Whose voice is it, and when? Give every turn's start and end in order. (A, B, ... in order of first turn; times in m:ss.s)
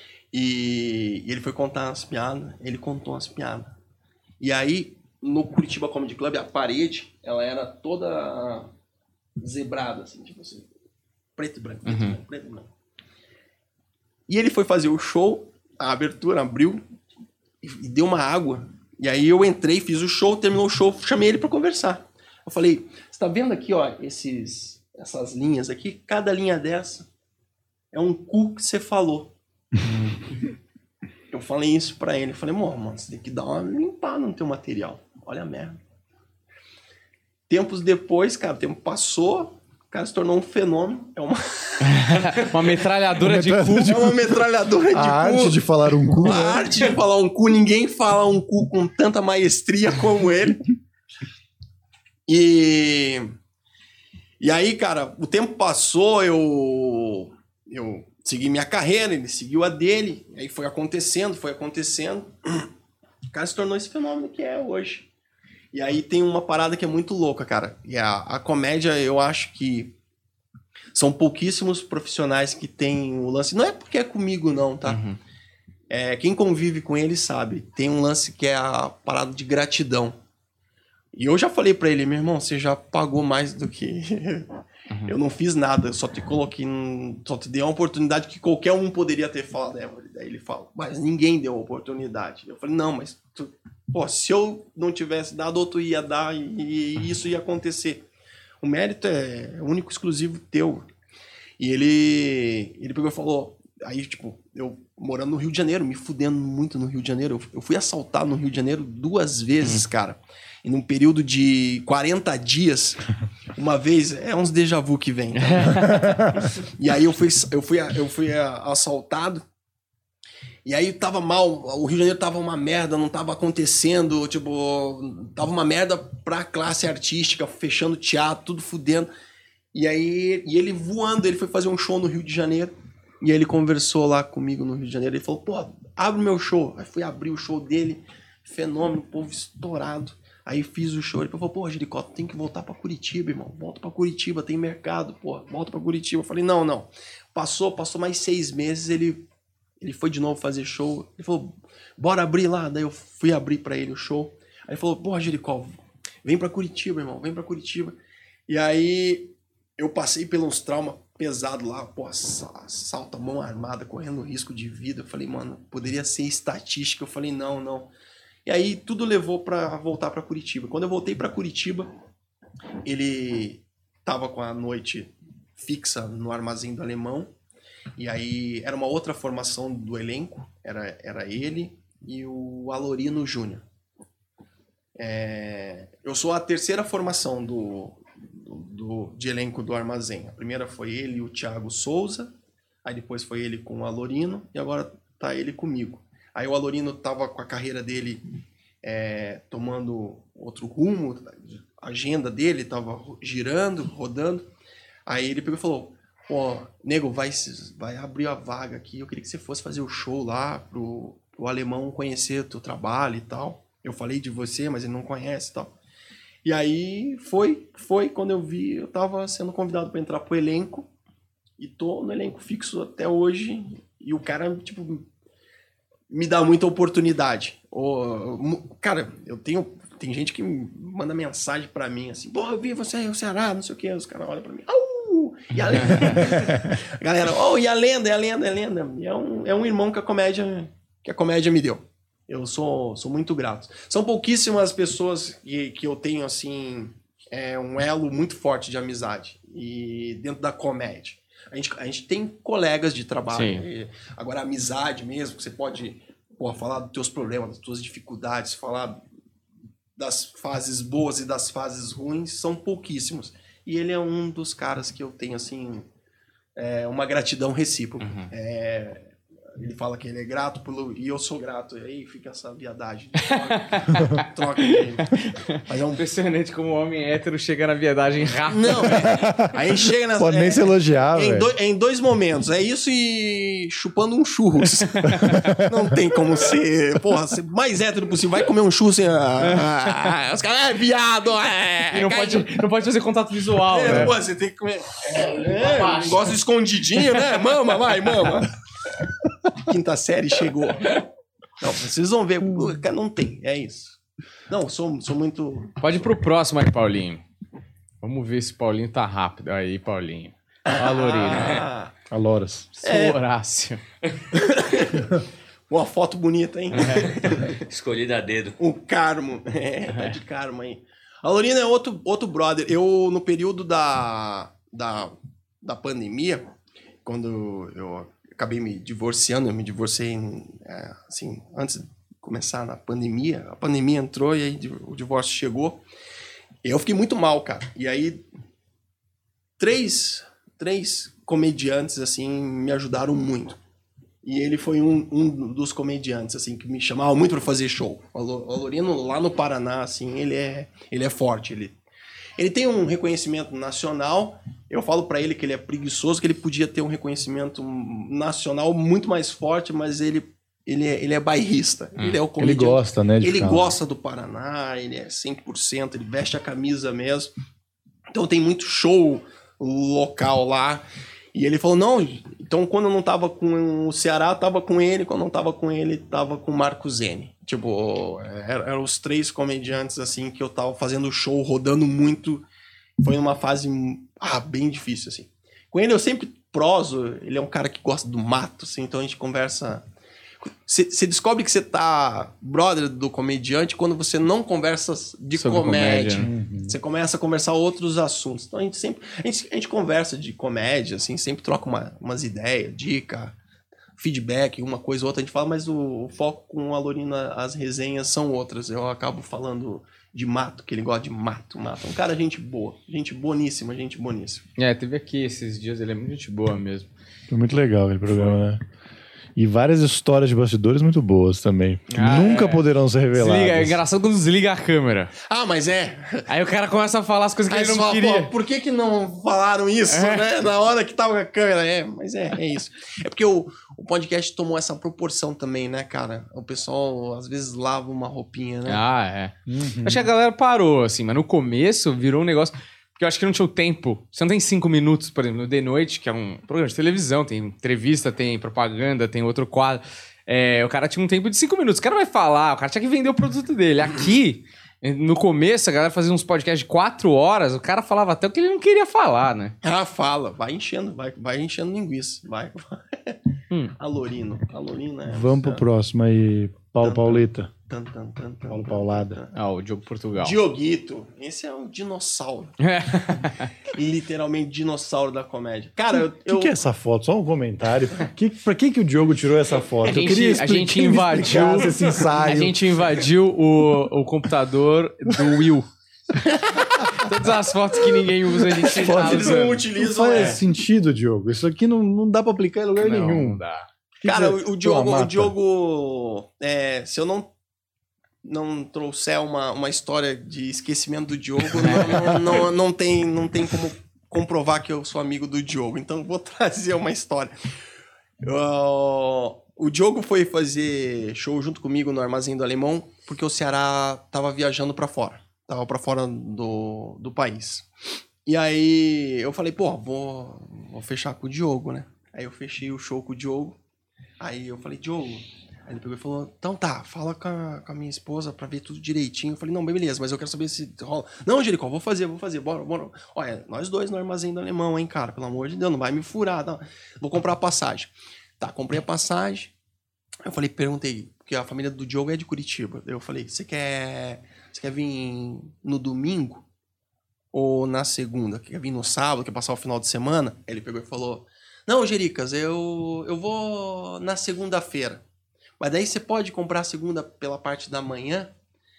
0:00.3-0:03.7 A
0:04.4-0:08.7 A
0:09.4-0:10.7 A
0:11.3-0:12.7 A
0:11.8-0:12.2 B
0:14.3-0:16.8 A
0:17.6-0:27.1 A
0:27.9-0:29.3 A
0:31.3-0:35.8 A
0:37.5-0:42.7 A
0:41.8-0:44.0 B
0:43.2-0:44.1 C
0:43.8-0:50.7 A
0:44.9-0:46.7 C
0:52.2-0:53.3 A
0:54.4-1:02.7 A
1:03.3-1:05.1 A
1:05.7-1:10.0 A
1:10.9-1:15.0 A
1:14.8-1:15.2 B
1:15.9-1:20.2 A
1:21.1-1:38.0 A
1:38.6-1:40.9 A
1:41.6-1:53.0 A
1:53.5-1:59.4 A
1:55.3-1:56.3 B
2:00.6-2:09.1 A
2:09.7-2:29.2 A
2:29.8-2:38.0 A
2:38.5-2:47.9 A
2:48.4-2:51.9 A
2:52.8-2:57.3 A
2:58.0-3:03.6 A
3:05.0-3:18.2 A
3:18.8-3:24.5 A
3:25.0-3:35.7 A
3:36.4-3:40.9 A
3:41.6-3:45.1 A
3:46.1-4:19.0 A
3:55.7-3:56.3 B
4:13.3-4:13.6 B
4:20.0-4:25.9 A
4:26.6-4:36.0 A
4:28.0-4:28.3 B
4:33.2-4:39.5 B
4:38.5-4:52.5 A
4:38.9-4:39.5 C
4:40.2-4:41.5 C
4:44.9-4:45.4 B
4:45.2-4:46.0 C
4:49.4-4:50.1 B
4:51.9-4:54.1 B
4:53.6-4:58.5 A
4:55.1-4:56.3 D
4:59.5-5:01.0 A
5:01.6-5:04.0 A
5:04.5-5:05.8 A
5:05.8-5:07.2 B
5:08.0-5:11.7 B
5:10.6-5:11.9 A
5:12.1-5:12.7 C
5:12.8-5:13.8 B
5:12.8-5:13.2 A
5:14.3-5:17.6 A
5:16.7-5:17.1 B
5:17.4-5:18.6 D
5:18.6-5:26.5 A
5:27.0-5:35.8 A
5:36.6-5:38.2 A
5:39.6-5:43.6 A
5:44.2-5:51.8 A
5:52.4-6:07.3 A
6:02.0-6:02.2 B
6:02.4-6:03.7 C
6:08.1-6:22.4 A
6:23.0-6:29.8 A
6:30.4-6:43.4 A
6:35.3-6:36.3 B
6:36.2-6:36.7 C
6:44.0-6:54.4 A
6:54.6-6:56.9 B
6:57.3-6:58.6 C
6:59.4-7:03.8 C
7:01.9-7:05.1 B
7:05.2-7:06.2 A
7:06.3-7:08.3 B
7:07.5-7:18.8 A
7:09.9-7:10.3 B
7:18.6-7:39.6 B
7:19.5-7:20.1 C
7:39.6-7:43.2 A
7:43.8-7:45.6 A
7:45.1-7:47.5 C
7:46.8-7:49.4 A
7:48.5-7:49.2 C
7:49.3-7:50.4 B
7:50.2-7:56.6 A
7:52.6-7:53.5 B
7:56.2-8:02.6 C
7:59.9-8:09.6 B
8:01.4-8:02.2 A
8:06.5-8:06.9 A
8:08.6-8:10.4 A
8:08.8-8:13.4 C
8:12.8-8:13.6 B
8:14.0-8:15.3 C
8:14.0-8:17.3 A
8:18.2-8:27.3 A
8:21.6-8:22.1 B
8:28.2-8:37.7 A
8:38.2-8:43.6 A
8:44.2-8:59.5 A
9:00.2-9:06.4 A
9:07.3-9:15.0 A
9:15.6-9:18.3 A